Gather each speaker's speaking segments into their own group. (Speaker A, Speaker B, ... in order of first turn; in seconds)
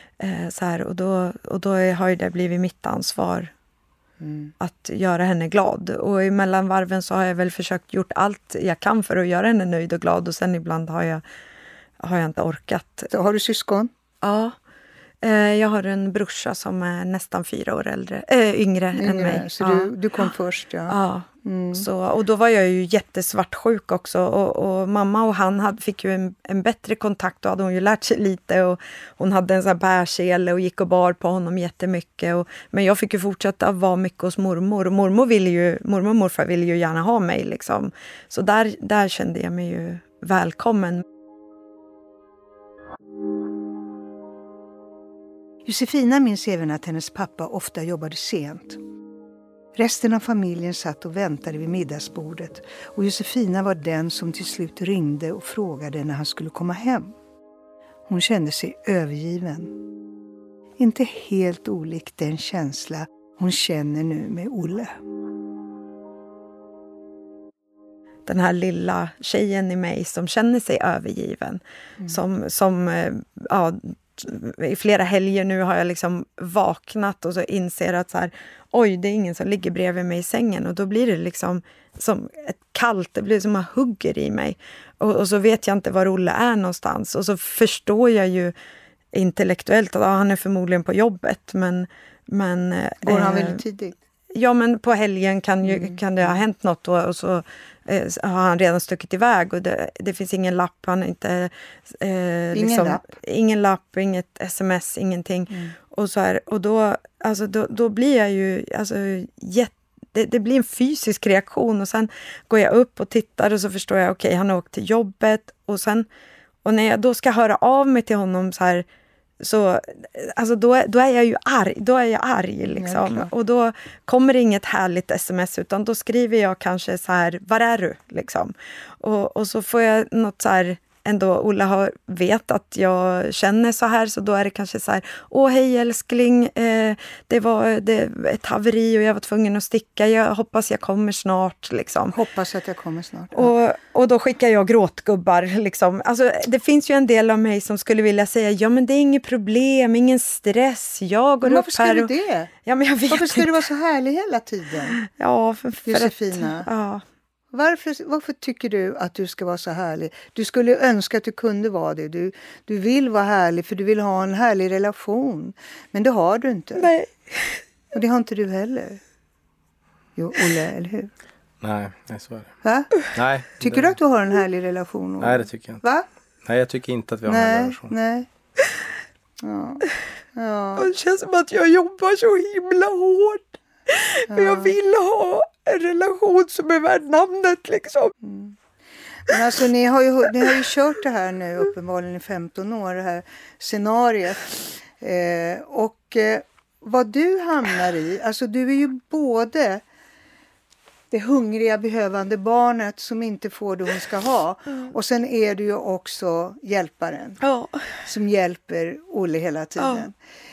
Speaker A: 0.2-3.5, 4.6-11.2, 12.0-13.1, 14.2-14.6, 15.2-19.9, 20.9-41.0, 68.2-88.5, 89.1-93.6, 94.3-116.1, 116.6-118.8, 119.4-142.2, 143.3-152.1, 152.6-153.5, 155.0-157.0, 166.8-167.6, 180.8-188.1, 207.4-207.9, 209.8-210.1
Speaker B: 4.2-4.5, 13.1-13.9, 18.9-21.9, 45.6-48.8, 49.7-57.1, 58.1-59.7, 60.8-64.9, 93.0-94.0, 95.6-96.4, 102.5-103.2, 122.8-123.3, 142.1-143.5, 151.4-152.5, 153.1-155.0, 155.8-156.7, 157.5-166.9, 167.9-169.0, 170.2-171.1, 172.6-172.9, 173.6-176.0, 177.2-178.3, 179.4-180.9, 184.3-184.7, 188.2-188.6, 189.3-199.8, 201.1-207.4, 208.0-210.1
Speaker C: 171.6-172.5, 173.1-173.9, 175.2-175.8, 176.4-177.9